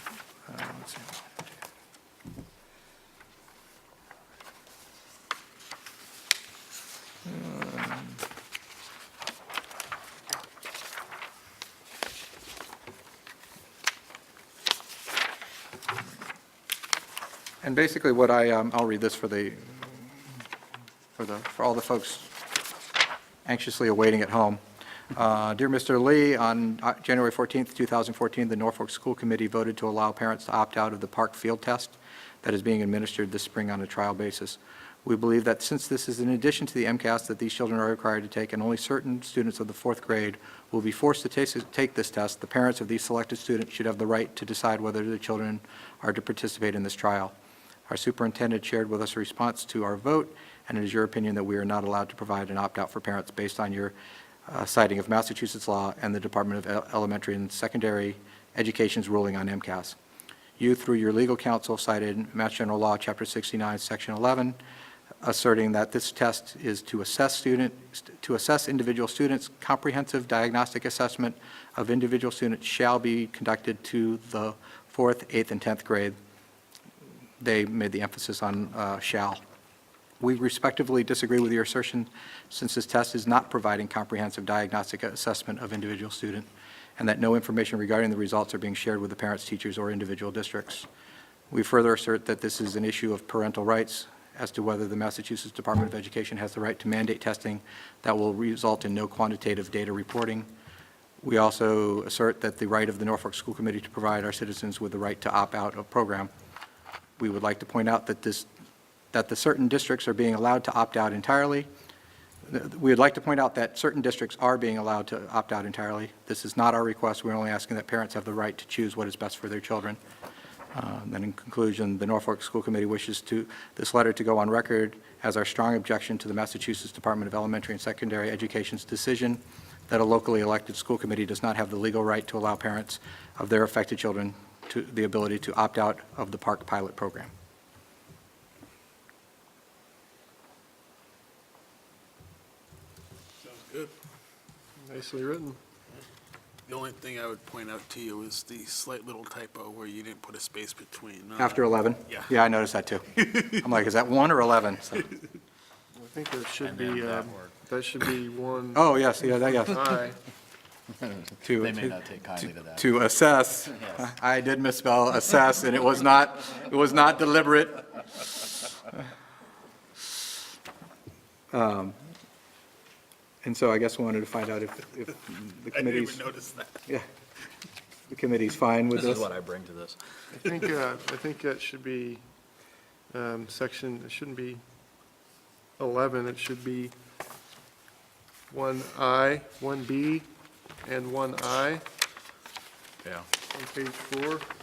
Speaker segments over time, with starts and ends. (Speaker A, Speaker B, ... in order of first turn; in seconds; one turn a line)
Speaker A: 0.5-1.1
Speaker A: 7.3-8.2
Speaker A: 17.6-20.2
Speaker A: 21.2-22.3
Speaker A: 23.4-24.6
Speaker A: 25.1-47.4
Speaker A: 47.9-53.9
Speaker A: 54.5-60.0
Speaker A: 60.6-64.6
Speaker A: 65.2-76.2
Speaker A: 77.4-79.4
Speaker A: 80.2-90.9
Speaker A: 91.5-100.5
Speaker A: 101.2-106.3
Speaker A: 107.2-108.5
Speaker A: 109.1-111.7
Speaker A: 112.5-120.0
Speaker A: 120.7-137.3
Speaker B: 143.4-143.9
Speaker C: 144.8-145.6
Speaker B: 146.7-152.3
Speaker A: 151.4-155.1
Speaker B: 153.3-153.6
Speaker C: 156.0-158.9
Speaker D: 156.9-157.5
Speaker A: 158.7-160.0
Speaker C: 159.5-160.2
Speaker A: 161.4-168.0
Speaker D: 161.6-162.8
Speaker A: 171.5-172.0
Speaker A: 173.4-176.2
Speaker B: 175.7-176.8
Speaker A: 178.1-179.3
Speaker D: 178.9-180.0
Speaker C: 180.3-182.2
Speaker C: 183.1-184.6
Speaker C: 185.8-186.9
Speaker C: 188.5-190.3
Speaker C: 190.8-191.8
Speaker C: 193.5-194.5